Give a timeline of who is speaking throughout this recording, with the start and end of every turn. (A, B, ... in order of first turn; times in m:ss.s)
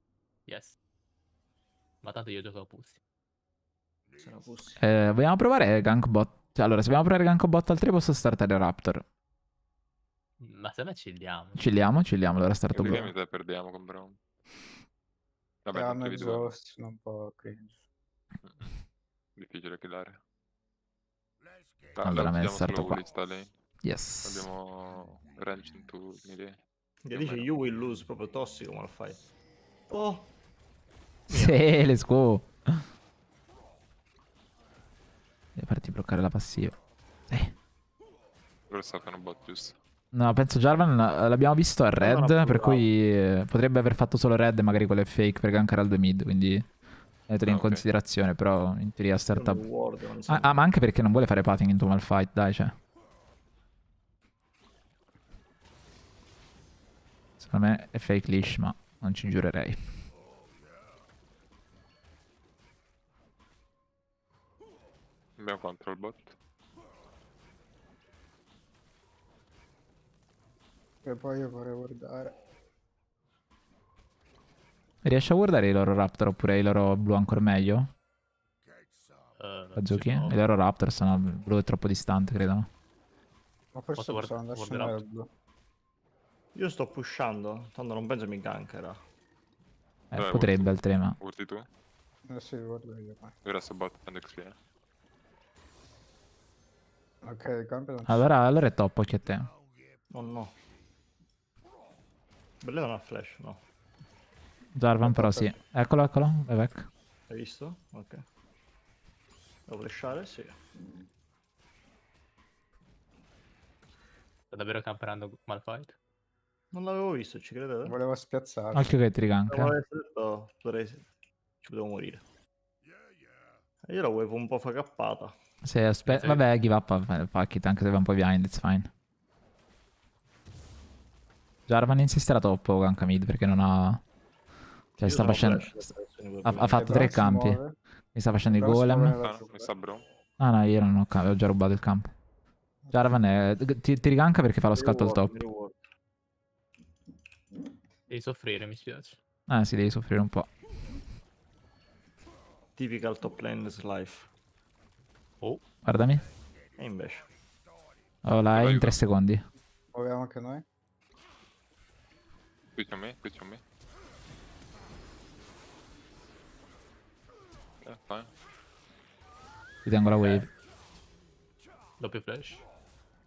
0:00.5-0:00.8 A
0:02.0-0:03.0 A
0:04.2-0:04.8 B
0:04.8-0:09.0 C
0:10.4-0:11.7 A
0:11.6-0:13.1 C
0:12.7-0:14.2 D
0:15.6-0:16.5 D
0:15.7-0:17.8 E
0:18.4-0:18.7 D
0:19.4-0:20.2 D
0:22.0-0:23.5 D
0:22.0-0:23.0 C
0:23.8-0:24.5 C
0:24.2-0:26.6 D
0:27.0-0:29.2 B
0:27.1-0:27.5 D
0:29.9-0:30.3 B
0:31.3-0:31.6 B
0:31.3-0:32.8 C
0:35.6-0:36.8 C
0:37.3-0:37.5 C
0:38.7-0:39.8 D
0:40.1-0:46.7 C
0:42.0-0:42.9 B
0:47.3-0:49.6 C
0:47.5-0:47.8 D
0:49.3-0:50.6 B
0:50.3-0:52.8 C
0:57.4-0:59.8 C
1:05.4-1:06.4 D
1:11.0-1:12.4 E
1:15.0-1:17.9 C
1:19.4-1:20.4 A
1:19.8-1:22.7 C
1:23.7-1:25.3 E
1:24.0-1:25.0 A
1:26.5-1:29.0 B
1:30.1-1:31.2 C
1:30.1-1:31.7 D
1:32.3-1:33.4 E
1:33.4-1:34.6 D
1:37.2-1:38.2 E
1:38.1-1:39.5 C
1:40.1-1:40.5 B
1:42.6-1:43.6 B
1:44.8-1:46.9 C
1:45.0-1:45.5 E
1:47.3-1:48.2 B
1:49.7-1:50.6 B
1:54.5-1:56.0 A
1:56.7-1:58.0 B
1:57.8-1:58.9 E
1:58.7-1:59.7 C
1:59.5-2:01.1 B
2:01.6-2:02.2 B
2:03.8-2:05.4 B
2:05.6-2:08.9 C
2:06.1-2:06.4 A
2:11.7-2:14.0 C
2:15.0-2:15.8 C
2:15.0-2:17.1 B
2:16.4-2:17.6 C
2:16.8-2:17.8 E
2:18.2-2:19.2 C
2:18.5-2:19.7 E
2:19.2-2:20.0 D
2:20.4-2:22.1 C
2:22.8-2:23.2 E
2:22.9-2:25.3 C
2:24.7-2:25.8 B
2:28.1-2:29.2 A
2:29.5-2:30.5 C
2:32.8-2:34.3 B
2:35.8-2:36.3 C
2:36.8-2:37.3 B
2:38.2-2:39.4 C
2:38.5-2:39.0 D
2:39.9-2:40.6 E
2:42.8-2:43.6 D
2:47.8-2:48.3 D
2:49.8-2:50.5 C
2:50.1-2:50.4 A
2:52.0-2:52.6 A